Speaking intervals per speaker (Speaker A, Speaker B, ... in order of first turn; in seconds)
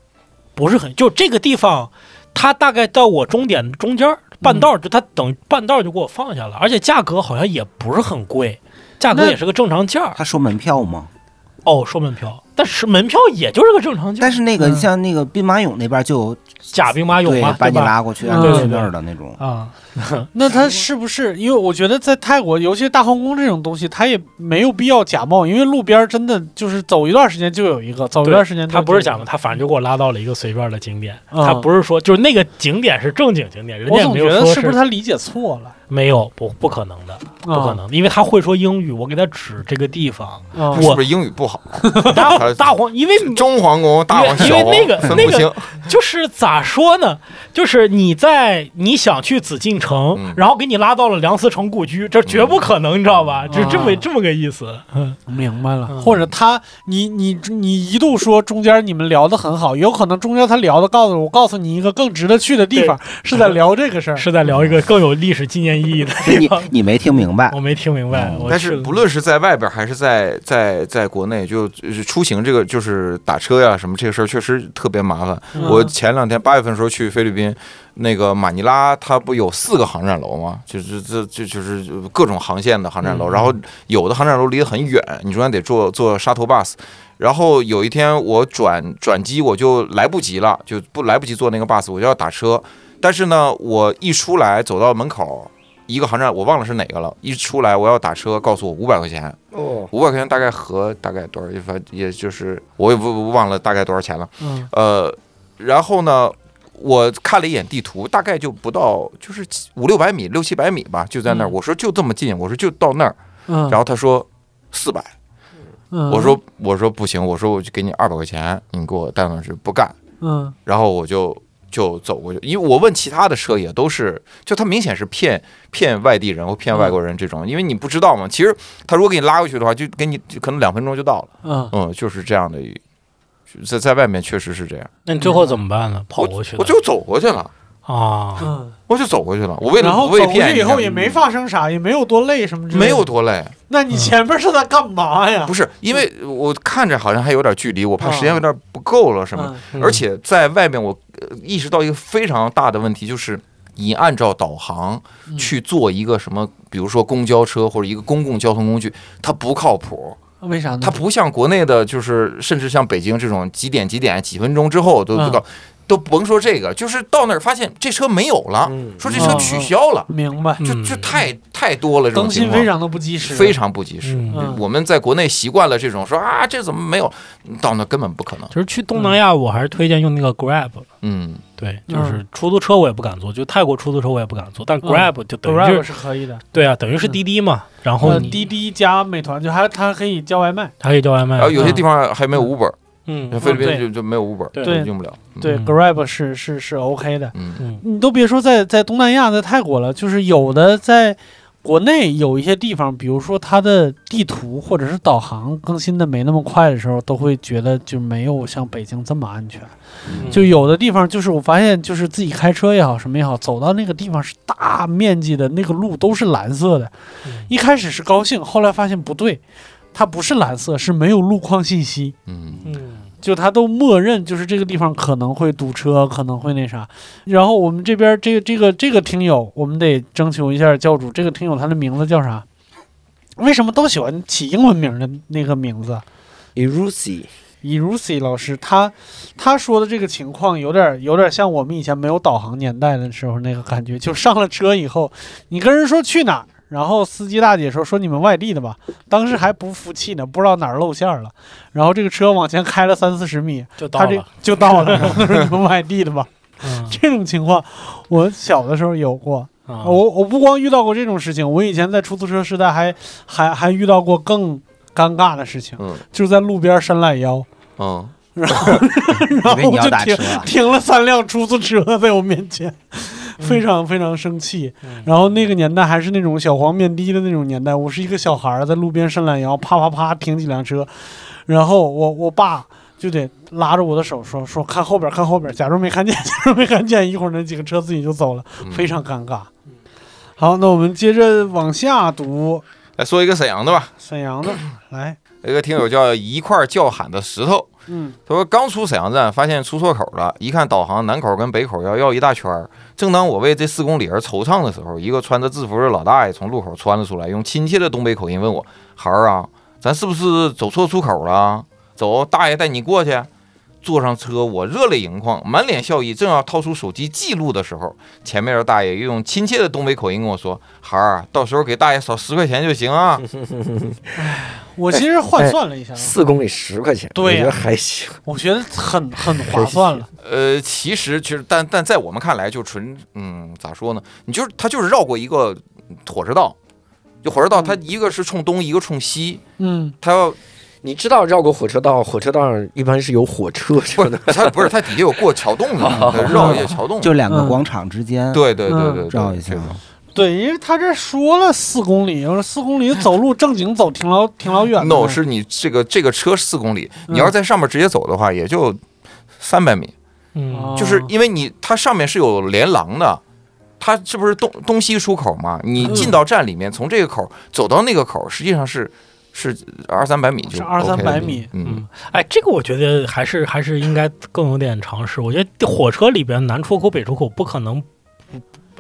Speaker A: 0.6-10.2, 11.7-14.4, 16.7-20.3, 28.2-34.8, 35.9-41.0, 42.1-43.5, 44.1-55.2, 62.7-63.6, 64.2-66.7, 67.5-68.9, 75.5-75.8, 83.0-83.6, 135.1-136.8, 137.9-138.5, 149.7-150.0, 170.6-171.2, 174.0-174.4, 178.5-180.9, 181.6-185.9, 186.5-188.4, 190.8-191.8, 193.1-193.8, 194.5-194.8, 195.4-195.8, 210.2-210.5, 222.7-223.1, 253.8-255.2, 256.6-257.0, 259.7-260.0, 360.4-360.8, 365.8-366.1, 371.6-378.4
Speaker B: 4.4-4.7, 9.1-9.4, 14.6-14.9, 18.2-18.8, 20.3-29.3, 31.3-31.7, 33.9-35.7, 37.4-37.8, 40.5-40.9, 41.8-42.2, 53.5-54.1, 55.3-64.3, 75.6-75.9, 104.4-104.7, 113.5-113.8, 115.9-116.4, 120.2-120.5, 131.4-131.7, 135.2-135.6, 138.4-138.8, 139.8-143.1, 143.7-146.0, 148.0-148.4, 149.3-149.7, 155.3-155.5, 160.4-161.0, 165.1-165.4, 169.1-170.6, 172.1-173.6, 174.3-174.6, 181.9-182.2, 184.8-186.5, 188.0-190.7, 191.6-191.8, 193.4-193.9, 194.6-209.7, 210.3-216.9, 217.5-219.4, 219.9-222.2, 223.2-232.4, 233.4-236.0, 237.6-267.5, 268.4-289.5, 290.4-292.6, 294.0-295.2, 297.9-298.2, 324.2-326.1, 327.1-327.6, 328.3-330.1, 339.6-339.9, 346.4-346.7, 347.3-347.6, 348.7-349.1, 350.1-355.2, 357.1-357.3, 360.5-361.1, 365.8-366.2, 370.5-371.5
Speaker C: 10.2-11.1, 14.2-16.4, 17.2-19.4, 66.2-67.6, 68.1-68.4, 269.3-270.5, 345.9-348.6, 349.1-349.8
Speaker D: 40.7-45.9, 50.1-50.4, 52.3-52.6, 68.5-99.4, 99.9-113.2, 113.7-115.1, 116.1-120.0, 120.7-132.8, 133.5-134.9, 136.2-137.5, 138.9-141.2, 142.7-143.5, 145.5-160.2, 160.8-170.1, 170.6-178.5, 181.0-181.4, 191.4-192.8, 193.3-195.5, 197.3-197.6, 222.3-222.6, 267.8-268.1, 288.6-289.0, 293.0-293.9, 295.4-297.7, 298.3-313.3, 313.8-323.2, 330.2-336.6, 337.2-339.4, 340.0-340.4, 343.9-347.2, 348.3-349.8, 354.8-358.8, 359.4-359.9, 360.8-363.2, 363.8-371.9
Speaker E: 99.5-99.9, 168.7-169.1, 236.6-237.3, 323.2-324.3, 324.9-328.2, 329.2-330.1, 340.8-345.2, 345.7-346.7